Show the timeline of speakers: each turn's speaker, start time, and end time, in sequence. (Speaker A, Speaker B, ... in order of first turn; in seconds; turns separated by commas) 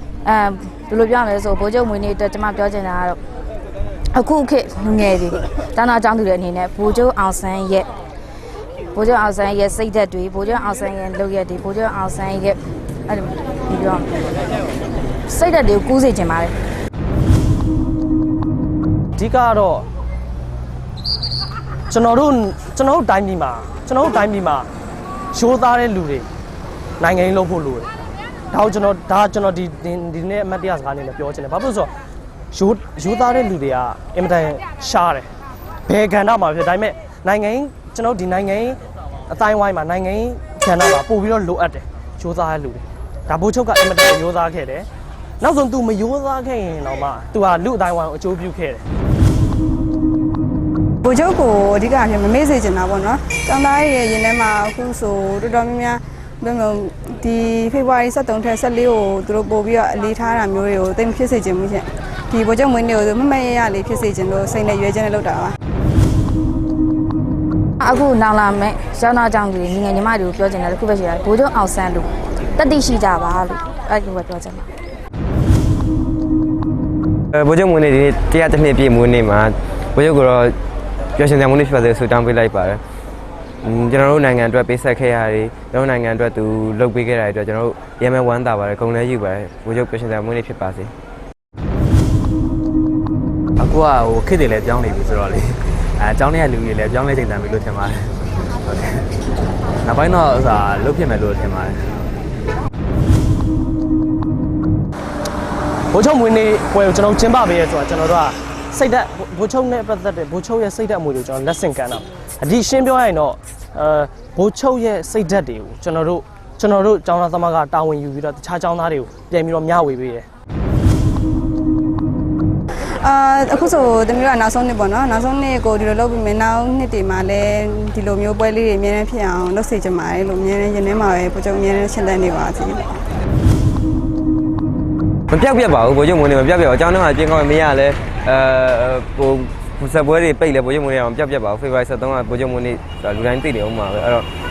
Speaker A: 0.2-3.2, Speaker A: 4.1-7.9, Speaker A: 8.9-14.1, Speaker A: 15.2-16.5, Speaker B: 19.2-19.9, Speaker B: 21.9-24.7, Speaker B: 25.3-26.3, Speaker B: 27.0-27.9, Speaker B: 28.5-31.9, Speaker B: 32.5-35.3, Speaker B: 35.9-44.9, Speaker B: 45.4-48.8, Speaker C: 51.0-65.5, Speaker A: 67.8-74.7, Speaker D: 77.4-80.5, Speaker D: 81.2-82.8, Speaker D: 83.6-90.9, Speaker E: 93.6-99.1, Speaker E: 99.8-102.0, Speaker B: 105.9-120.2, Speaker C: 122.8-132.9, Speaker D: 135.3-144.3